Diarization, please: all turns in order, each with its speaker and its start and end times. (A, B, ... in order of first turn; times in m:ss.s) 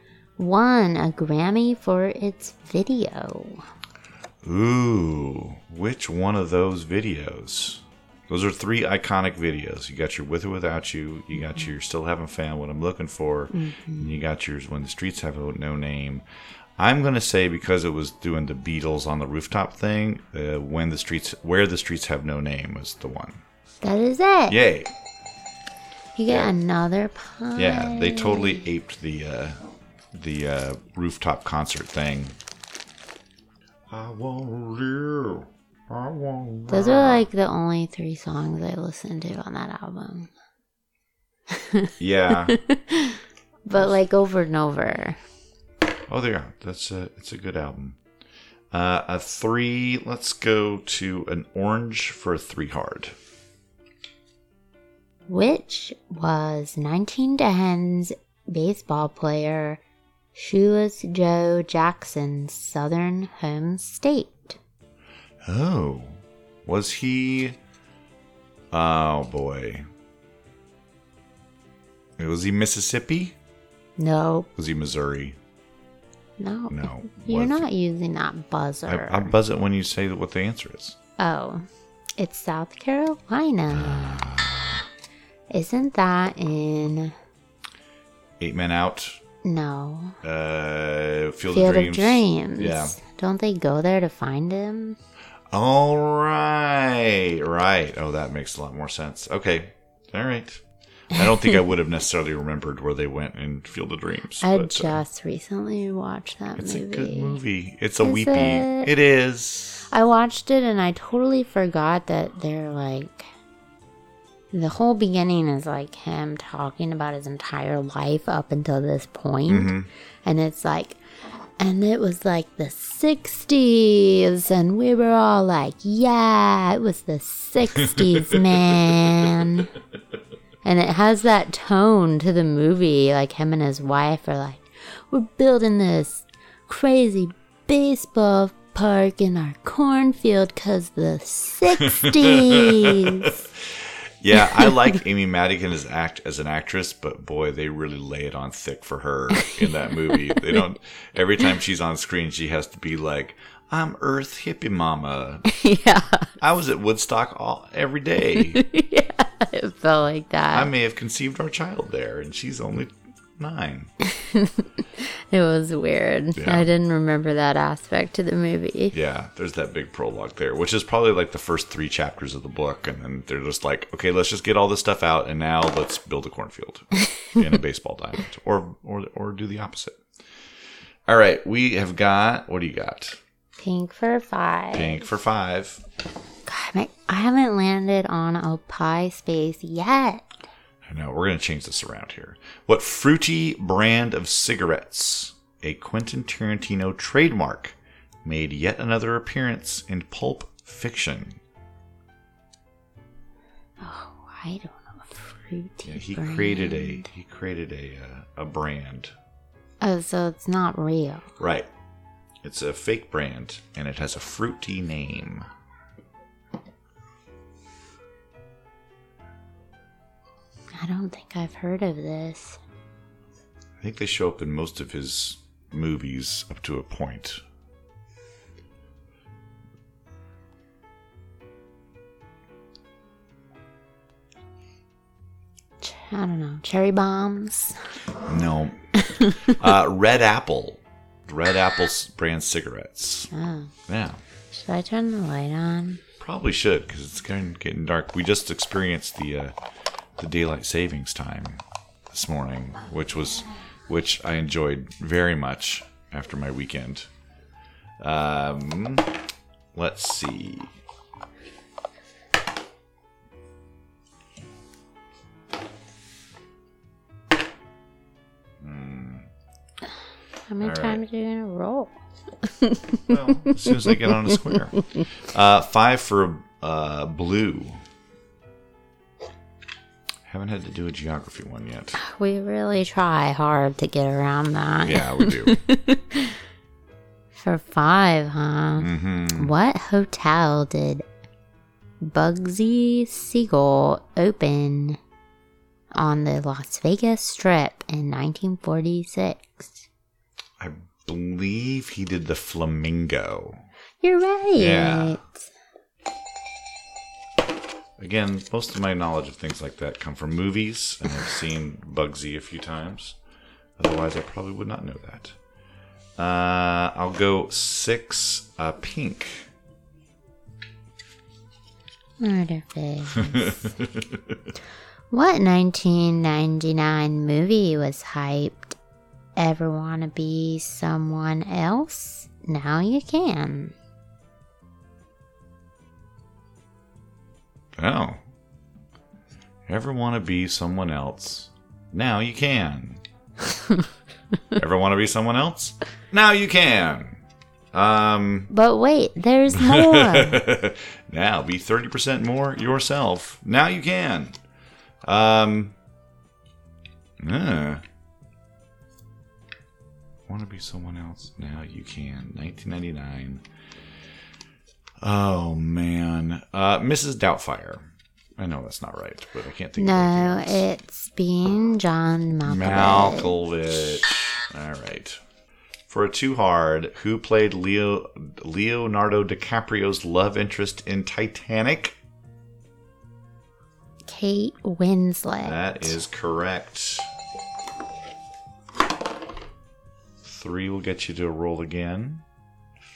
0:00.4-0:03.6 A
0:04.4-0:16.2 B
0:13.5-0:14.1 A
0:16.8-0:23.4 B
0:23.8-0:24.6 A
0:24.5-0:24.9 B
0:26.2-0:28.7 A
0:27.6-0:29.6 B
0:30.1-0:32.4 B
0:33.9-0:37.3 B
0:36.7-0:40.3 A
0:41.5-0:45.2 A
0:42.0-0:42.6 B
0:46.1-0:48.0 B
0:48.7-0:53.1 B
0:55.3-0:59.8 A
1:00.3-1:04.6 A
1:05.4-1:07.6 B
1:08.7-1:09.8 B
1:12.2-1:13.3 B
1:14.0-1:14.5 A
1:14.6-1:15.4 B
1:16.4-1:19.3 A
1:16.7-1:17.7 B
1:18.9-1:21.0 B
1:21.2-1:21.7 A
1:22.2-1:24.2 A
1:23.7-1:24.9 B
1:25.5-1:27.1 A
1:28.4-1:29.2 B
1:29.4-1:30.2 A
1:30.2-1:33.0 B
1:31.5-1:35.0 A
1:35.5-1:45.0 B
1:44.4-1:47.4 A
1:46.6-1:49.9 B
1:48.0-1:48.9 A
1:49.8-1:53.2 A
1:54.5-1:59.7 A
1:59.5-1:59.9 B
2:00.2-2:01.0 A
2:01.6-2:09.7 A
2:07.7-2:08.9 B
2:10.6-2:23.4 A
2:21.8-2:35.5 B
2:24.4-2:25.0 A
2:29.3-2:30.6 A
2:35.5-2:36.3 A
2:36.4-2:38.6 B
2:38.3-2:40.7 A
2:40.5-2:43.9 B
2:44.0-2:49.0 A
2:46.4-2:46.7 B
2:48.9-3:00.0 B
2:57.1-2:57.4 A
3:01.1-3:03.2 B
3:03.6-3:05.0 A
3:04.7-3:05.8 B
3:06.4-3:10.4 A
3:10.8-3:21.4 B
3:23.8-3:27.1 A
3:25.8-3:29.1 B
3:29.8-3:31.2 A
3:31.4-3:31.7 B
3:32.4-3:35.5 B
3:40.7-3:42.6 A
3:43.8-3:47.4 B
3:55.8-3:57.8 A
3:58.2-4:03.3 B
3:59.0-3:59.5 A
4:03.3-4:03.7 A
4:03.9-4:04.2 B
4:04.5-4:06.0 A
4:06.2-4:09.5 B
4:10.2-4:17.1 B
4:18.0-4:19.1 B
4:19.7-4:20.7 B
4:28.6-4:29.3 B
4:30.5-4:35.0 A
4:30.6-4:31.0 B
4:33.1-4:37.8 B
4:40.2-4:42.0 B
4:42.0-4:46.4 A
4:44.8-4:45.6 B
4:47.3-4:51.0 A
4:48.8-4:49.5 B
4:52.0-4:55.0 A
4:55.9-4:59.9 A
5:00.6-5:03.6 B
5:04.0-5:05.5 A
5:04.6-5:05.2 B
5:08.0-5:13.2 B
5:13.8-5:15.4 B
5:16.2-5:19.5 B
5:22.2-5:23.6 A
5:23.1-5:24.5 B
5:25.1-5:28.8 A
5:29.4-5:33.7 A
5:37.8-5:38.2 B
5:39.7-5:43.0 B
5:44.5-5:47.2 B
5:47.7-5:48.5 B
5:48.5-5:50.4 A
5:49.5-5:54.4 B
5:55.0-5:55.7 B
5:57.2-5:57.8 B
6:00.3-6:03.4 B
6:05.0-6:07.8 B
6:08.4-6:10.6 B
6:09.8-6:14.0 A
6:12.4-6:15.2 B
6:15.9-6:21.9 B
6:24.1-6:26.0 A
6:25.4-6:27.1 B
6:30.2-6:32.2 B